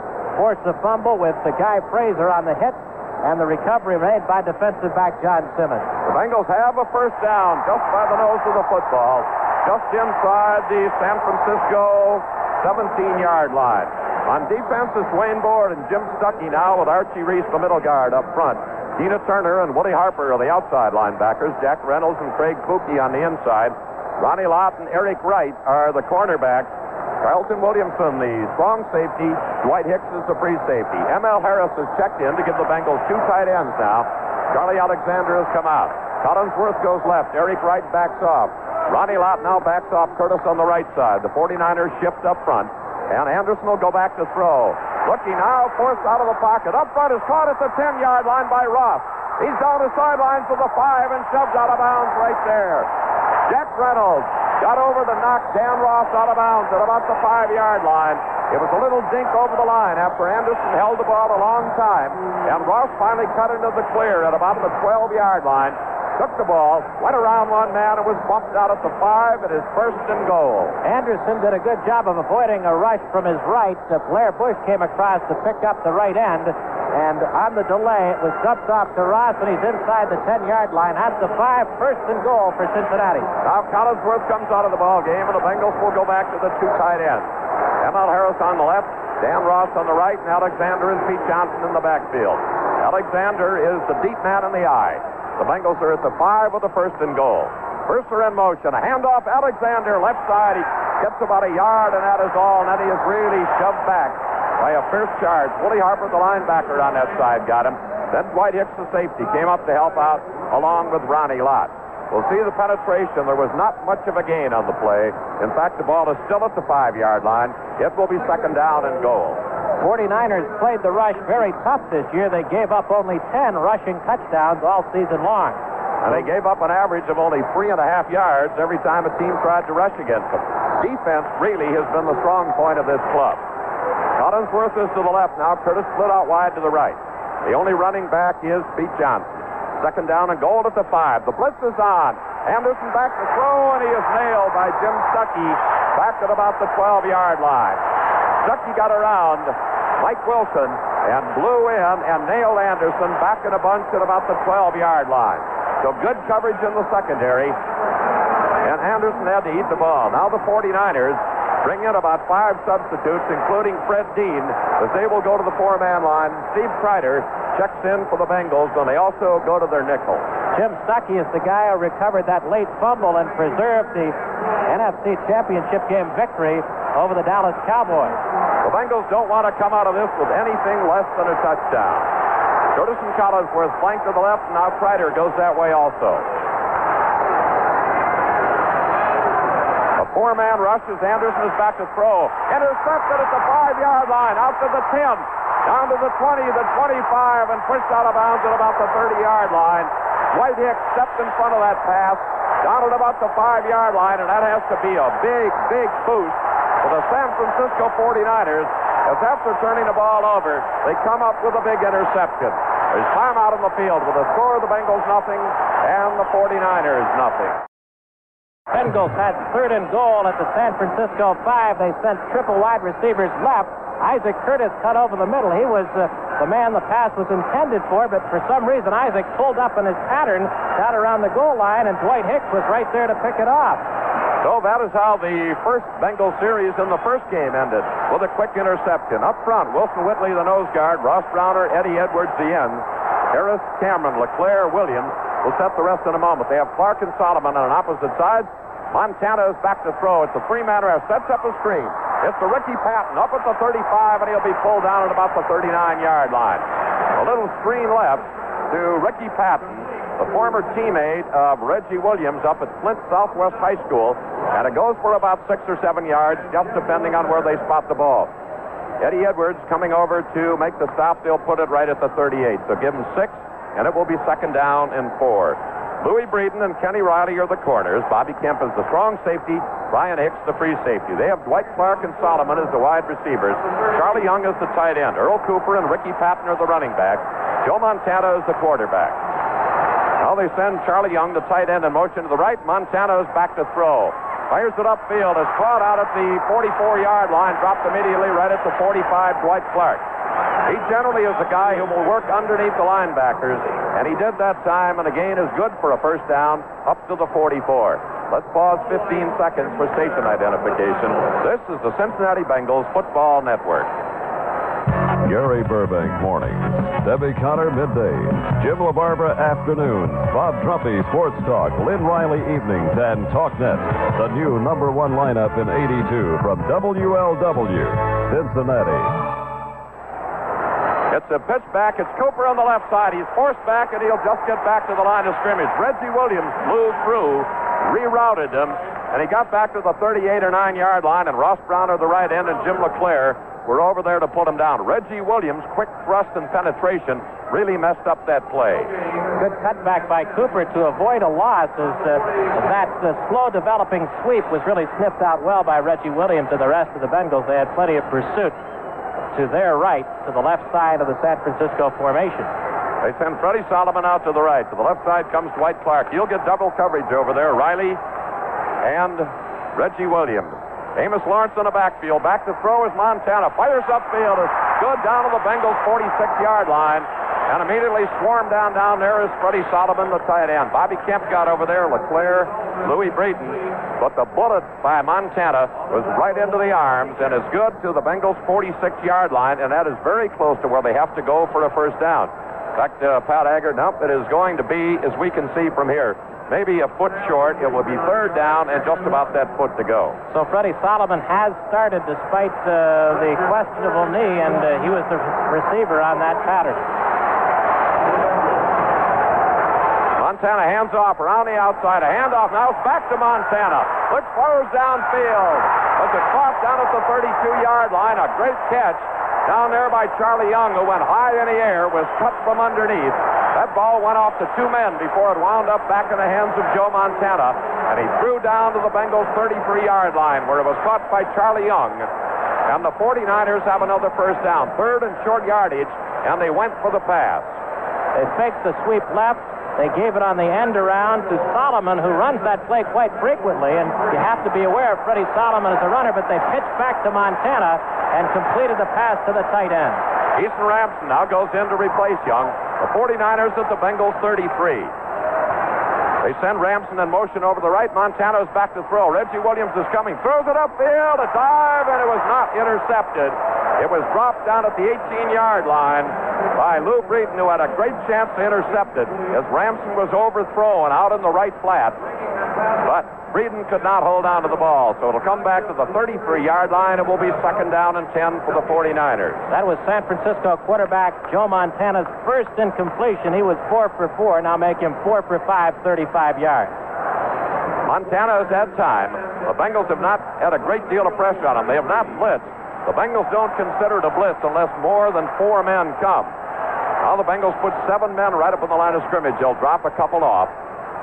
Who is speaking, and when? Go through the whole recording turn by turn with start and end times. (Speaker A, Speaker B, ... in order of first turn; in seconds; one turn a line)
Speaker A: 0.3-5.9
Speaker B: 6.0-26.7
Speaker B: 27.2-52.9
Speaker B: 53.5-70.8
Speaker A: 70.8-83.3
Speaker B: 83.4-87.3
Speaker B: 87.8-119.4
Speaker A: 119.8-125.6
Speaker B: 126.0-133.4
Speaker B: 134.2-147.8
Speaker B: 148.4-157.6
Speaker B: 158.6-170.2
Speaker A: 170.5-178.2
Speaker B: 178.6-182.1
Speaker B: 182.7-186.3
Speaker B: 190.0-217.6
Speaker A: 218.7-233.8
Speaker B: 234.4-268.3
Speaker B: 269.0-289.2
Speaker B: 290.2-300.0
Speaker B: 300.7-313.9
Speaker C: 315.2-329.2
Speaker B: 331.1-348.9
Speaker A: 349.4-358.6
Speaker A: 359.3-362.5
Speaker B: 363.0-368.0
Speaker B: 368.8-400.2
Speaker A: 400.3-406.9
Speaker B: 410.2-432.1
Speaker B: 432.7-437.6
Speaker A: 438.1-450.0
Speaker B: 450.4-454.9
Speaker B: 456.2-472.0
Speaker B: 472.8-479.5
Speaker A: 479.5-486.7
Speaker B: 487.9-496.3
Speaker B: 497.0-500.5